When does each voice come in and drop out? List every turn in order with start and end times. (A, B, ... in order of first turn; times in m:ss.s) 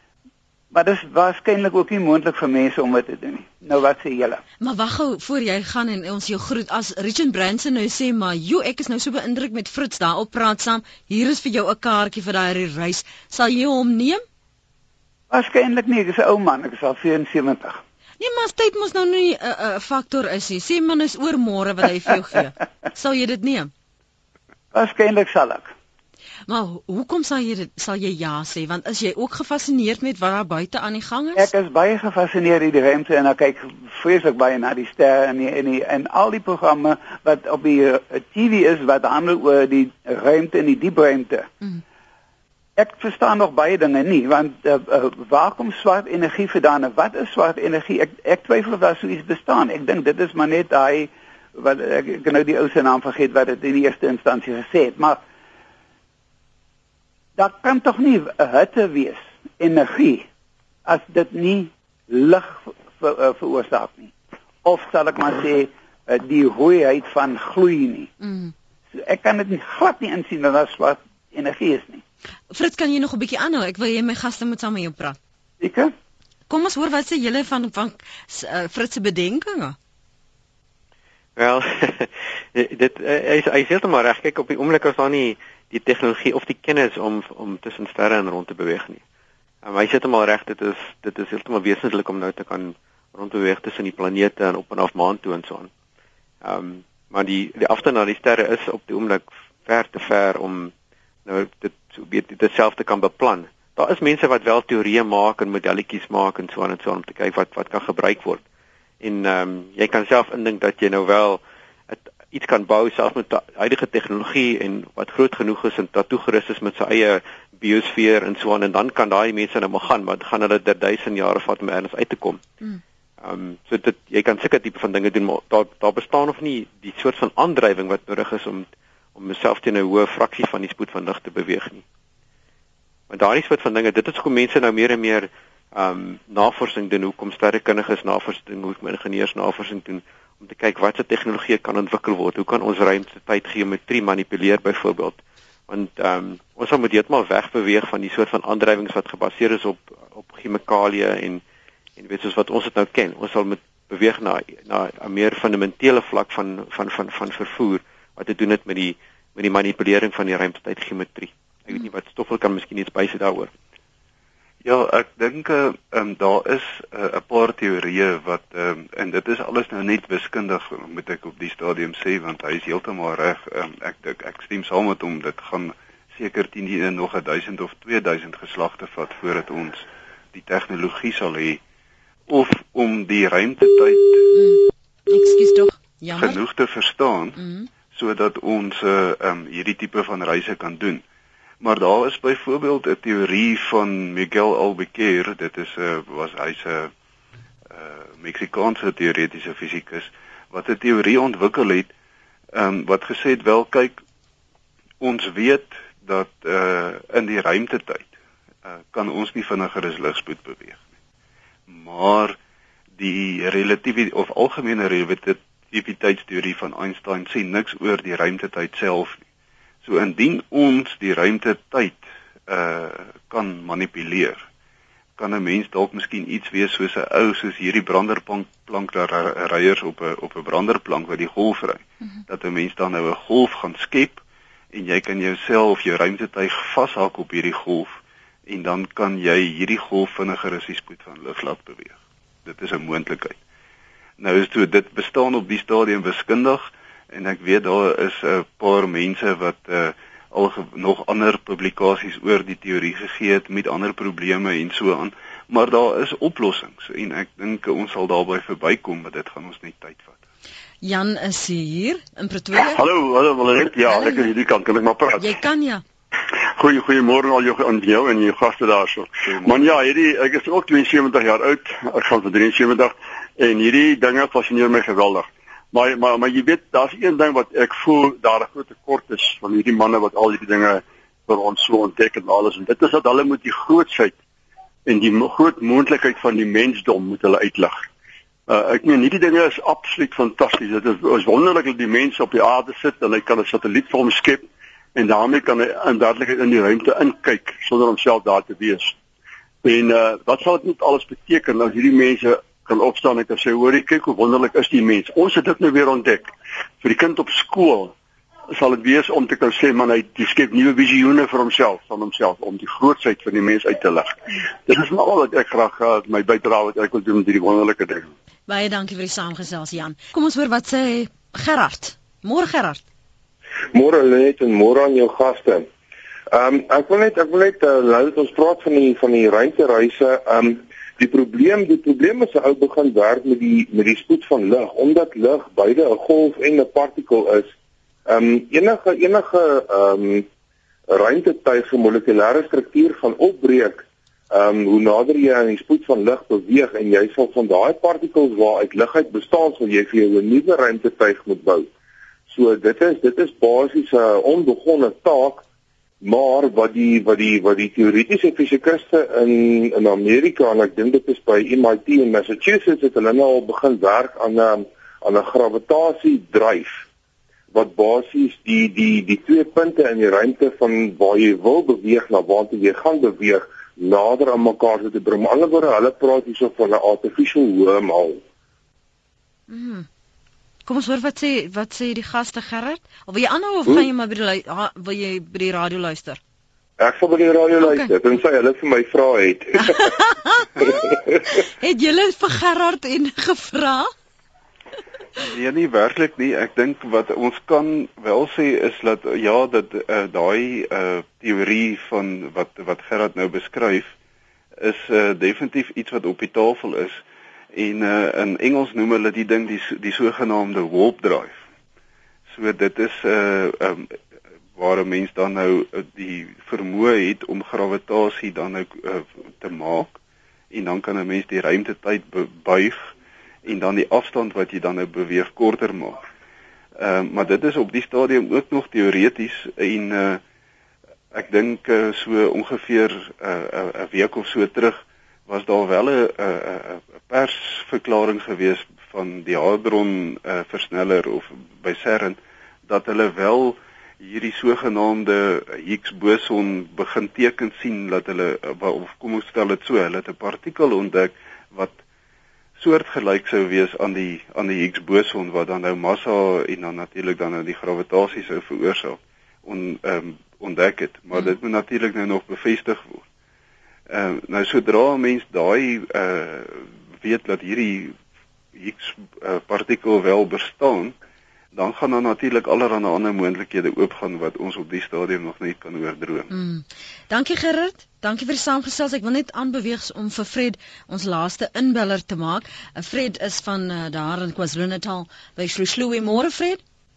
0:00.7-0:04.4 A
0:04.6-0:14.2 B
0:15.3-0:17.8 A
0:18.2-0:23.7 B
0:24.7-0:25.7 A
0:26.5-0:31.5 B
0:31.4-0:41.5 A
0:42.8-0:55.2 A
0:57.4-1:00.3 A
1:00.9-1:04.1 A
1:04.6-1:08.1 A
1:08.2-1:08.5 B
1:08.9-1:12.0 A
1:12.5-1:15.2 B
1:15.6-1:15.9 A
1:16.5-1:19.8 B
1:21.4-1:29.0 C
1:29.6-1:35.7 C
1:36.4-1:40.7 C
1:41.3-1:48.4 C
1:49.0-2:02.4 C
2:03.2-2:11.8 C
2:13.1-2:31.4 C
2:32.0-2:43.5 C
2:44.6-3:01.6 D
3:02.3-3:04.3 D
3:04.3-3:06.4 B
3:06.2-3:07.4 D
3:07.4-3:07.7 B
3:07.9-3:11.0 D
3:11.6-3:16.9 D
3:17.7-3:21.9 D
3:22.5-3:24.0 D
3:25.0-3:28.1 D
3:28.6-3:30.8 D
3:31.7-3:32.4 D
3:33.0-3:39.2 D
3:39.8-3:44.4 D
3:45.2-4:03.4 D
4:04.2-4:20.2 D
4:20.8-4:22.8 B
4:22.8-4:25.2 E
4:23.9-4:24.3 B
4:25.2-4:25.8 B
4:26.6-4:44.1 E
4:29.3-4:29.8 D
4:44.9-4:47.7 E
4:48.5-4:54.4 E
4:55.0-4:58.9 E
4:59.6-5:06.3 E
5:06.8-5:07.9 E
5:08.5-5:14.1 E
5:14.7-5:18.0 E
5:18.5-5:22.8 B
5:23.7-5:25.7 F
5:26.3-5:37.5 F
5:38.1-5:40.3 F
5:40.9-5:51.7 F
5:52.3-5:55.4 F
5:56.0-6:06.8 F
6:07.5-6:18.2 F
6:19.5-6:19.9 B
6:20.7-6:26.2 B
6:26.8-6:29.9 F
6:27.6-6:27.9 B
6:29.6-6:30.5 B
6:30.6-6:31.0 F
6:31.3-6:33.9 B
6:35.2-6:43.9 D
6:44.6-6:47.0 D
6:47.5-6:51.4 D
6:52.3-6:54.0 D
6:54.6-7:00.0 D
7:00.5-7:02.9 D
7:03.4-7:06.0 D
7:06.8-7:10.2 D
7:11.1-7:31.8 D
7:32.6-7:43.0 D
7:43.9-7:48.0 D
7:48.6-7:51.0 D
7:51.5-7:56.3 D
7:56.3-8:06.6 B